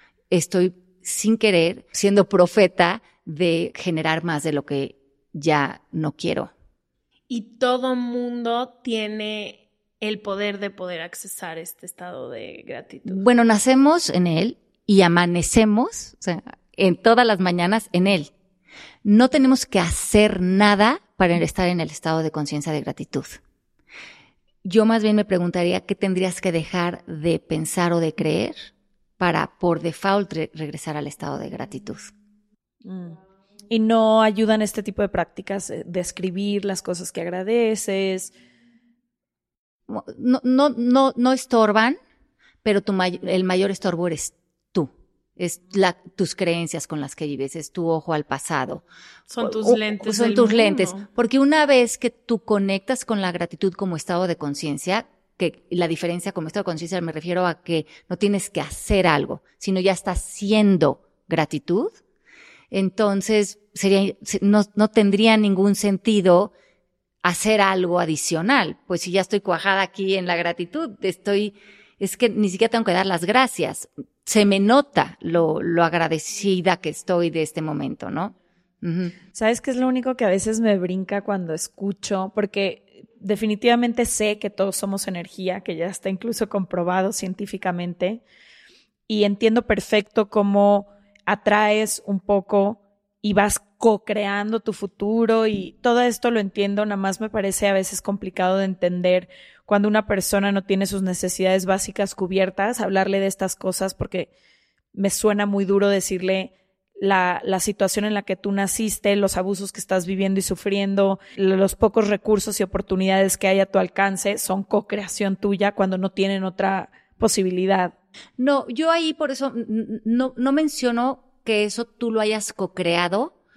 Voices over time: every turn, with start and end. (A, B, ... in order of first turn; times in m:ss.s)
0:00.3-0:06.5 A
0:07.3-0:13.2 B
0:13.1-0:18.3 A
0:19.0-0:23.4 A
0:24.6-0:32.1 A
0:32.8-0:33.2 C
0:33.7-0:38.3 C
0:39.9-0:42.0 A
0:42.6-0:48.8 A
0:49.3-0:51.0 B
0:49.4-1:01.9 A
1:02.7-1:06.5 A
1:07.2-1:19.1 A
1:19.3-1:28.2 C
1:29.1-1:44.3 C
1:44.9-1:57.9 C
1:58.4-2:03.4 A